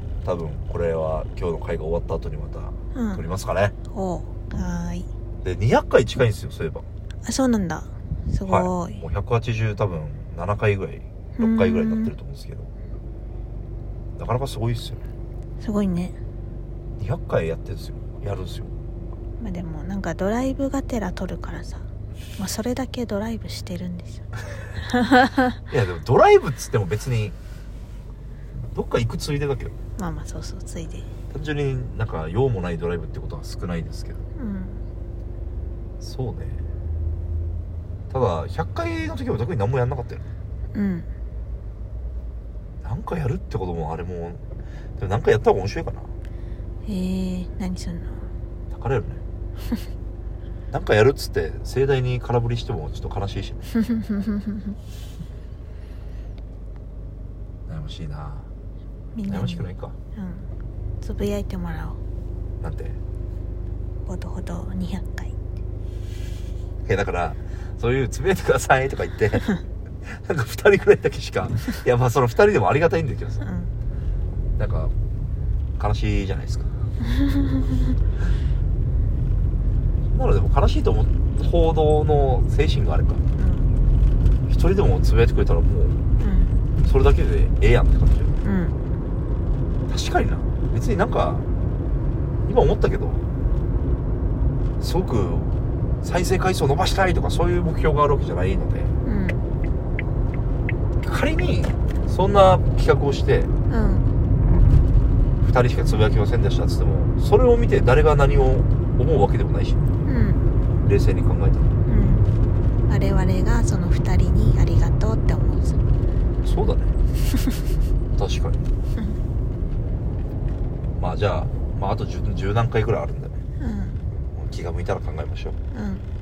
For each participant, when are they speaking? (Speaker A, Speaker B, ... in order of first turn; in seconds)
Speaker A: 0.2-3.7, 5.4-6.8, 8.4-12.7, 14.2-15.0, 17.0-18.7, 25.7-27.4, 28.6-29.7, 31.3-34.2, 36.0-36.6, 38.1-40.2, 42.8-44.4, 45.0-46.1, 48.7-49.2, 50.7-53.6, 57.7-58.5, 59.3-60.0, 62.6-63.0, 66.8-69.5, 70.0-73.4, 74.6-74.9, 75.8-76.7, 80.1-83.2, 84.5-86.0, 86.8-88.3, 89.9-91.4, 92.5-93.2, 94.8-98.9, 101.0-103.5, 105.4-109.8, 110.8-111.7, 116.4-116.9, 118.1-118.7, 121.0-123.4, 124.3-125.6
Speaker B: 2.9-3.2, 3.9-5.1, 7.2-9.0, 11.4-12.1, 15.6-16.2, 19.4-21.8, 22.4-25.6, 30.0-31.1, 34.3-34.8, 40.7-41.1, 46.8-48.3, 53.7-54.8, 59.1-60.5, 61.0-62.0, 64.0-65.3, 73.4-73.7, 83.4-83.7, 86.2-86.6, 88.4-88.8, 99.0-99.4, 103.7-104.1, 110.0-110.5, 111.8-112.3, 112.9-115.8, 123.6-124.0, 125.7-126.0